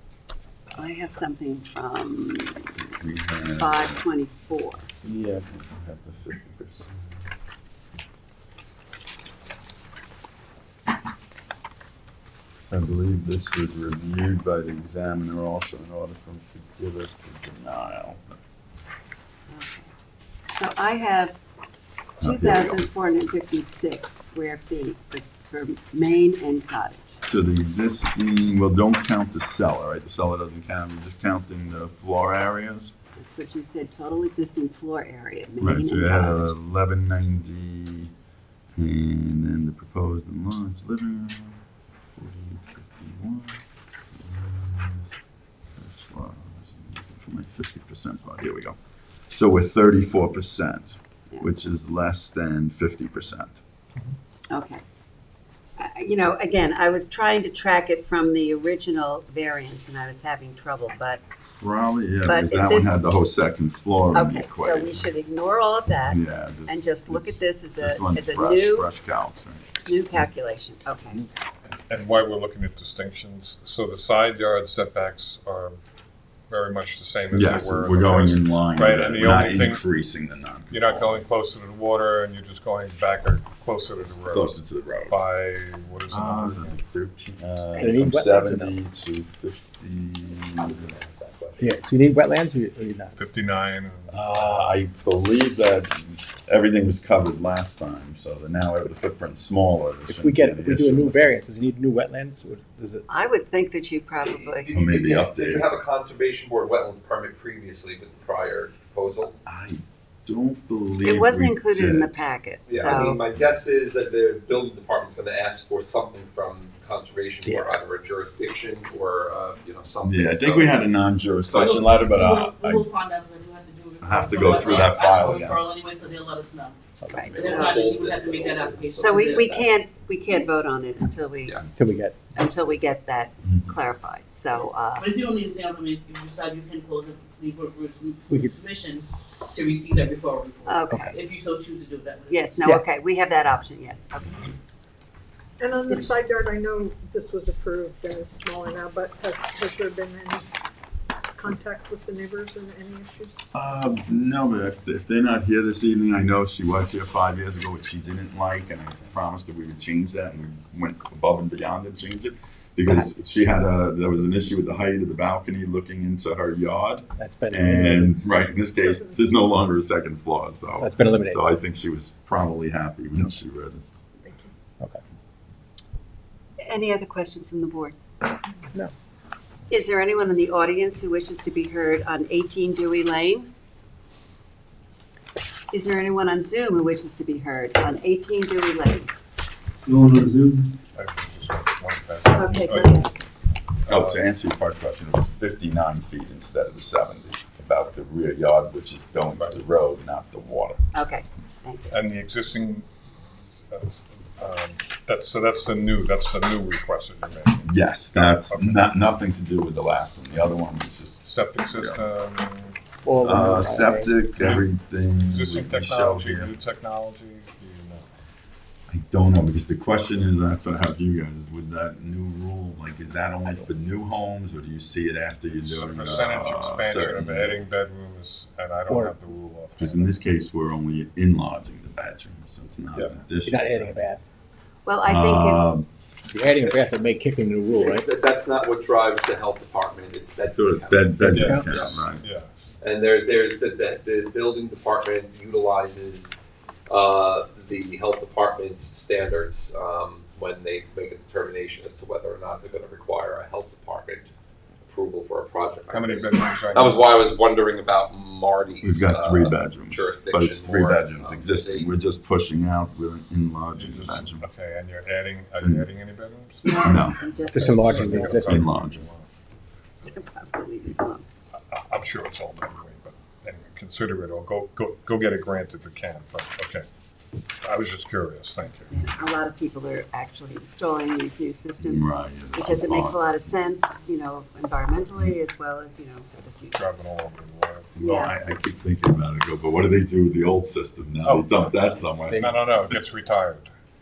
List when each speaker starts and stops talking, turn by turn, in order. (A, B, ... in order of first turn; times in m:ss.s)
0:00.8-0:02.8 A
0:03.0-0:04.0 B
0:03.6-0:04.9 A
0:05.0-0:05.4 C
0:05.5-0:07.3 B
0:12.7-0:18.4 B
0:19.5-0:19.9 A
0:20.5-0:21.4 A
0:22.2-0:22.8 B
0:22.2-0:27.2 A
0:27.3-0:32.9 B
0:33.2-0:36.5 A
0:35.6-0:38.1 B
0:38.8-0:45.2 B
0:45.8-0:48.8 B
0:49.3-0:53.6 B
0:54.5-0:54.8 A
0:55.8-1:01.2 A
1:01.6-1:05.1 B
1:02.2-1:03.1 A
1:04.1-1:08.9 A
1:06.1-1:09.6 B
1:09.9-1:11.2 A
1:11.9-1:15.8 D
1:16.5-1:19.8 D
1:17.3-1:21.2 B
1:20.7-1:26.8 D
1:24.2-1:25.2 B
1:26.1-1:31.0 B
1:27.7-1:28.8 C
1:30.6-1:31.7 E
1:31.6-1:33.2 C
1:33.2-1:34.7 D
1:34.1-1:41.3 B
1:40.1-1:43.1 C
1:43.1-1:44.7 A
1:44.2-1:49.4 E
1:44.7-1:45.7 B
1:49.4-1:52.1 B
1:51.0-1:53.2 A
1:52.7-2:00.9 E
1:57.4-1:57.7 C
2:00.0-2:02.9 B
2:01.5-2:01.8 E
2:01.6-2:06.8 F
2:04.0-2:05.6 B
2:04.6-2:04.9 E
2:07.1-2:07.8 A
2:07.3-2:09.6 E
2:07.3-2:09.6 F
2:09.0-2:11.6 A
2:11.7-2:12.3 C
2:12.3-2:15.1 A
2:15.0-2:22.6 F
2:18.3-2:18.6 C
2:20.7-2:21.2 A
2:22.3-2:24.5 A
2:25.6-2:30.5 G
2:31.4-2:33.4 G
2:33.5-2:53.9 B
2:47.2-2:48.2 C
2:48.8-2:49.2 G
2:50.8-2:51.5 C
2:54.2-2:54.5 G
2:56.7-2:58.0 A
2:59.7-3:03.5 A
3:05.7-3:09.1 A
3:10.1-3:10.5 C
3:10.9-3:13.1 D
3:12.4-3:13.1 A
3:13.8-3:14.2 D
3:13.9-3:20.8 B
3:19.3-3:19.6 D
3:20.9-3:22.0 A
3:21.9-3:22.9 D
3:23.5-3:28.8 D
3:27.7-3:31.2 B
3:31.2-3:32.8 D
3:31.7-3:32.0 B
3:33.0-3:34.1 C
3:33.2-3:36.5 B
3:34.4-3:34.7 D
3:35.2-3:38.0 D
3:38.9-3:47.6 B
3:45.6-3:50.1 D
3:48.9-3:49.2 C
3:49.8-3:54.0 B
3:52.9-3:53.2 D
3:53.4-3:54.2 C
3:54.8-3:55.6 A
3:55.0-3:55.9 B
3:56.3-3:58.1 C
3:57.8-4:02.0 E
4:00.5-4:02.2 B
4:01.2-4:02.0 C
4:01.3-4:02.5 D
4:02.8-4:06.3 E
4:06.9-4:14.3 E
4:14.8-4:21.9 E
4:15.9-4:17.1 D
4:18.8-4:24.4 B
4:23.8-4:26.7 D
4:26.6-4:28.4 A
4:26.8-4:27.2 B
4:27.5-4:28.7 C
4:27.7-4:29.3 D
4:27.9-4:29.0 B
4:30.0-4:31.2 A
4:31.6-4:36.9 D
4:37.6-4:38.9 D
4:38.9-4:46.8 A
4:41.8-4:43.2 B
4:46.7-4:47.9 D
4:48.0-4:52.6 B
4:48.0-4:48.3 A
4:51.2-4:53.7 D
4:52.3-4:52.7 C